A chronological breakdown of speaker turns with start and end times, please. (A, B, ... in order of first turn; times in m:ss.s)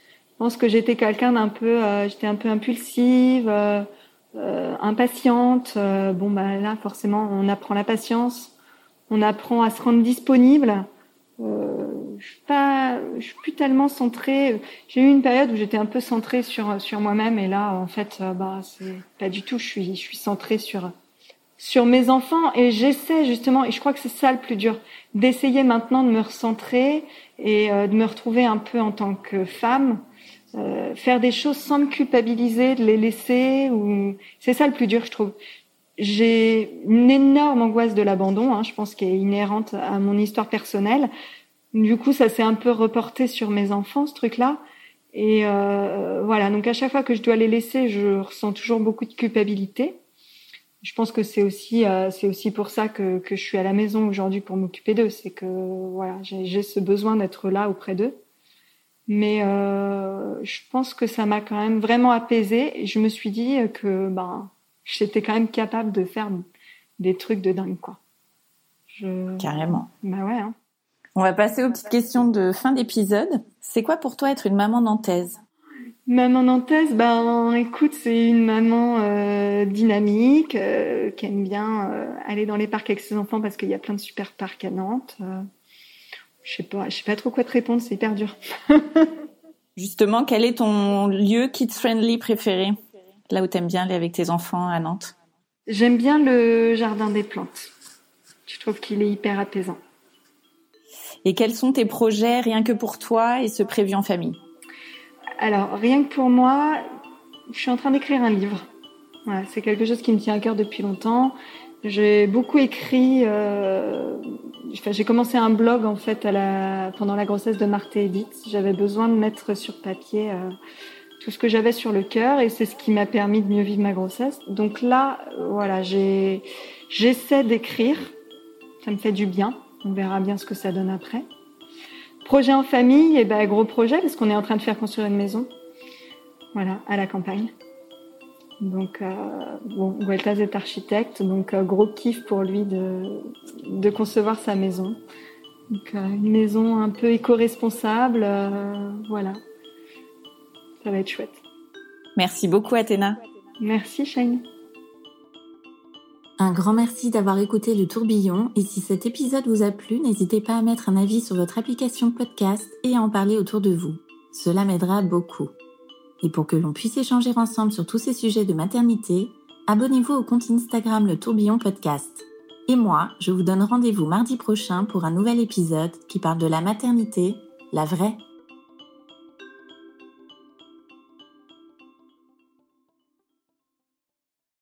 0:00.4-0:08.5 A
0:09.1-0:10.9 A
0:11.4-0:20.9 A
0:21.6-0:30.0 A
0:30.5-0:35.4 A
0:36.0-0:41.1 A
0:41.7-0:44.6 A
0:45.1-0:50.0 A
0:50.8-0:58.2 A
0:59.1-1:06.4 A
1:07.0-1:08.0 A
1:08.9-1:10.5 A
1:09.4-1:09.9 B
1:11.1-1:15.4 B
1:16.1-1:25.5 A
1:26.4-1:29.1 A
1:29.8-1:32.8 B
1:33.3-1:35.1 B
1:35.7-1:37.7 A
1:38.5-1:39.8 A
1:41.2-1:44.4 B
1:45.4-1:46.8 A
1:47.5-1:48.6 A
1:49.2-2:00.5 A
2:01.2-2:08.1 A
2:08.8-2:11.2 A
2:12.2-2:15.5 A
2:16.5-2:17.5 A
2:18.6-2:25.0 A
2:25.7-2:29.4 A
2:30.8-2:31.4 A
2:32.2-2:33.2 B
2:33.6-2:34.4 A
2:36.4-2:45.5 C
2:46.2-2:52.2 C
2:52.8-2:58.2 C